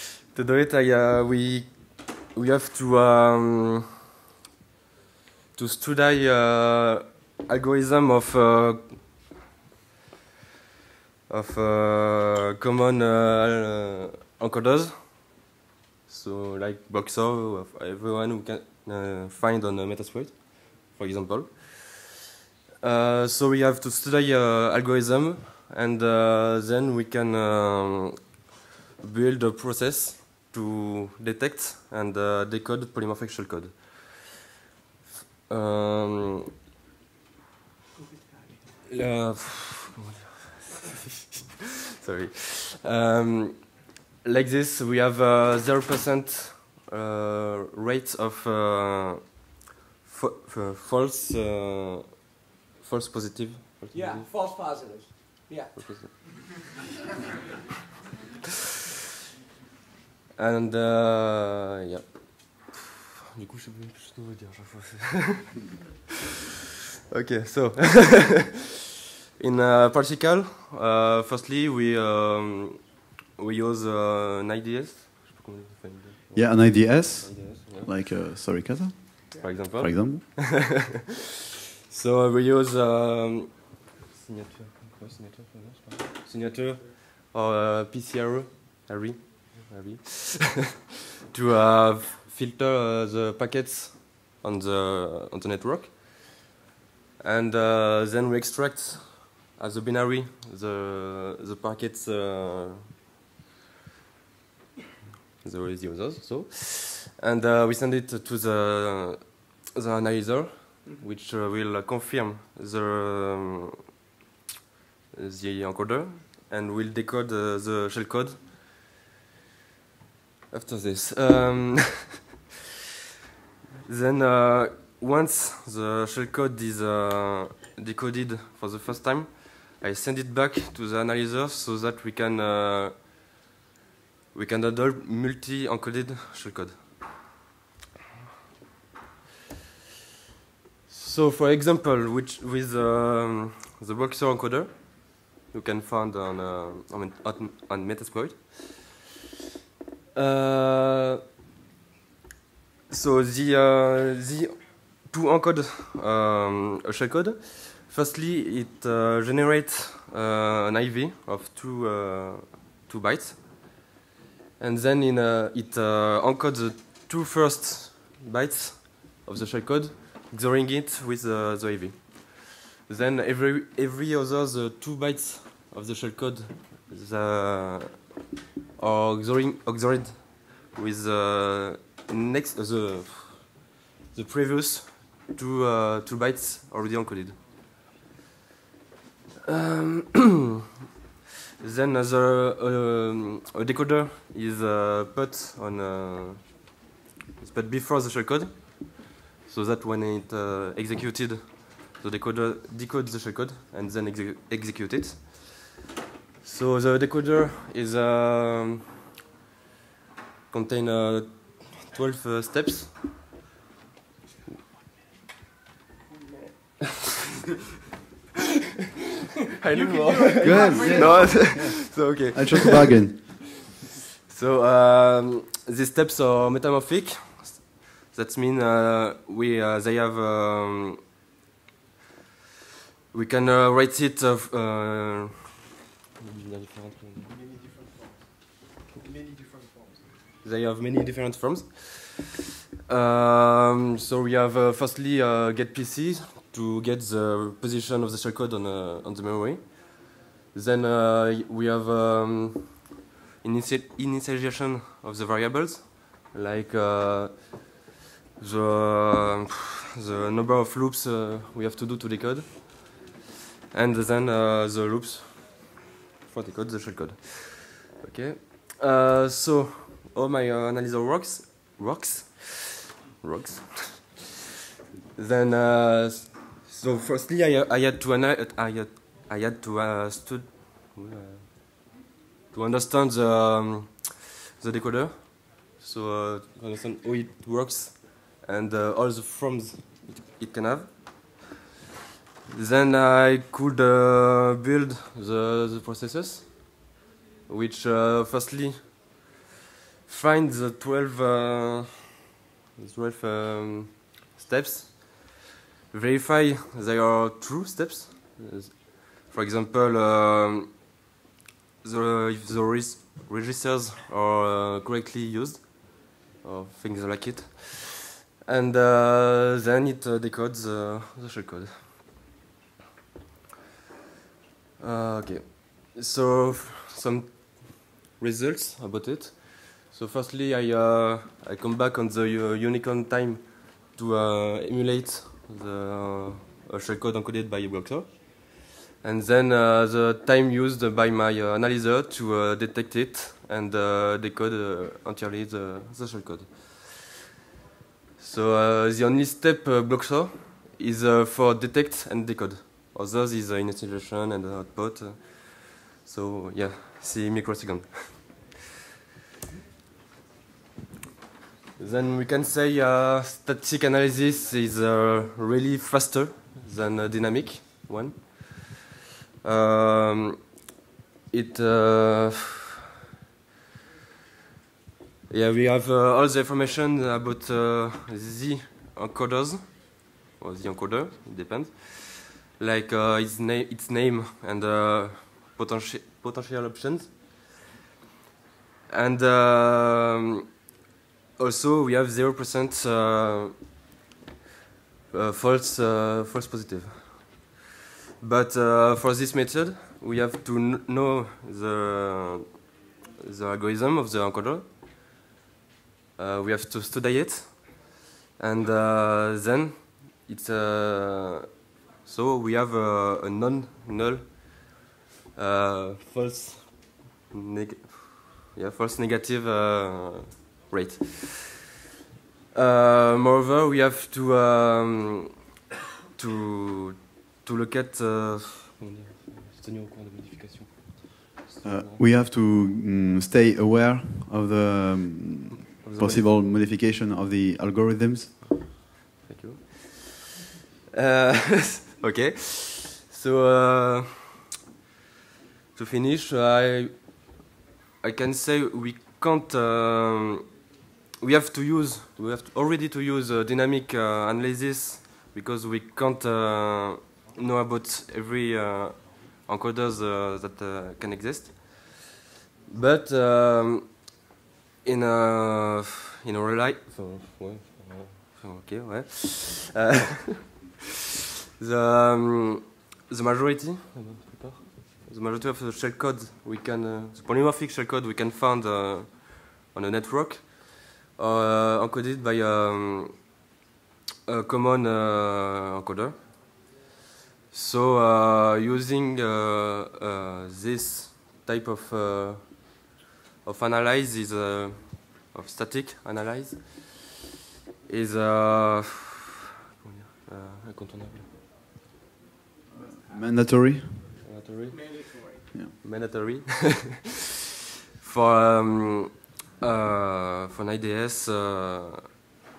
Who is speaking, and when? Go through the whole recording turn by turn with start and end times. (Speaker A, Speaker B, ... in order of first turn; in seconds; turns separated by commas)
Speaker A: 0.3-3.9, Speaker A: 5.5-9.2, Speaker A: 11.3-15.3, Speaker A: 16.1-22.1, Speaker A: 22.8-28.4, Speaker A: 29.0-34.2, Speaker A: 35.5-36.5, Speaker B: 38.0-38.6, Speaker A: 38.9-49.5, Speaker A: 50.0-54.3, Speaker B: 53.9-55.9, Speaker A: 55.8-56.6, Speaker A: 60.4-62.8, Speaker A: 63.4-65.6, Speaker A: 67.1-68.7, Speaker A: 69.4-77.9, Speaker C: 76.3-80.4, Speaker A: 79.4-80.8, Speaker A: 81.9-90.8, Speaker A: 91.3-96.5, Speaker A: 97.2-102.8, Speaker A: 105.4-113.8, Speaker A: 115.1-118.5, Speaker A: 120.5-122.2, Speaker A: 123.9-133.1, Speaker A: 134.3-136.8, Speaker A: 140.9-149.0, Speaker A: 150.1-151.2, Speaker A: 152.9-163.6, Speaker A: 164.6-178.1, Speaker A: 178.8-187.4, Speaker A: 189.5-190.5, Speaker A: 191.6-196.6, Speaker A: 197.4-205.7, Speaker A: 206.4-208.9, Speaker A: 210.5-213.0, Speaker B: 216.3-216.9, Speaker A: 219.6-223.2, Speaker B: 219.7-221.6, Speaker C: 220.4-223.4, Speaker A: 224.3-231.0, Speaker A: 233.1-235.6, Speaker A: 236.2-237.4, Speaker B: 237.3-238.2, Speaker B: 239.0-240.0, Speaker A: 240.4-252.9, Speaker A: 253.4-257.7, Speaker A: 258.4-263.0, Speaker A: 263.7-274.2, Speaker A: 275.1-281.9, Speaker A: 282.5-291.5, Speaker A: 292.5-296.8, Speaker A: 297.5-299.1, Speaker A: 300.1-302.2, Speaker A: 302.8-310.8, Speaker A: 311.8-321.8, Speaker A: 324.8-347.1, Speaker A: 348.2-358.4, Speaker A: 361.8-368.9, Speaker A: 369.4-370.5, Speaker A: 371.3-372.6, Speaker A: 375.3-387.2, Speaker A: 388.9-390.6, Speaker A: 391.4-393.6, Speaker A: 395.1-397.4, Speaker A: 398.2-402.7, Speaker A: 403.2-404.7, Speaker A: 406.2-414.6, Speaker A: 415.3-421.7, Speaker A: 422.5-425.4, Speaker A: 426.1-432.0, Speaker C: 431.6-438.5, Speaker A: 435.8-436.3, Speaker A: 439.2-440.4, Speaker A: 440.9-444.4, Speaker A: 445.8-447.3, Speaker A: 448.0-450.6, Speaker A: 451.2-462.1, Speaker A: 462.7-464.1, Speaker A: 464.8-470.6, Speaker A: 471.6-483.3, Speaker A: 484.3-486.4, Speaker A: 487.5-492.9, Speaker A: 493.4-497.2, Speaker A: 497.9-499.3, Speaker A: 499.8-501.3, Speaker C: 502.7-504.2, Speaker A: 504.2-507.1, Speaker B: 504.7-505.4, Speaker A: 508.0-512.3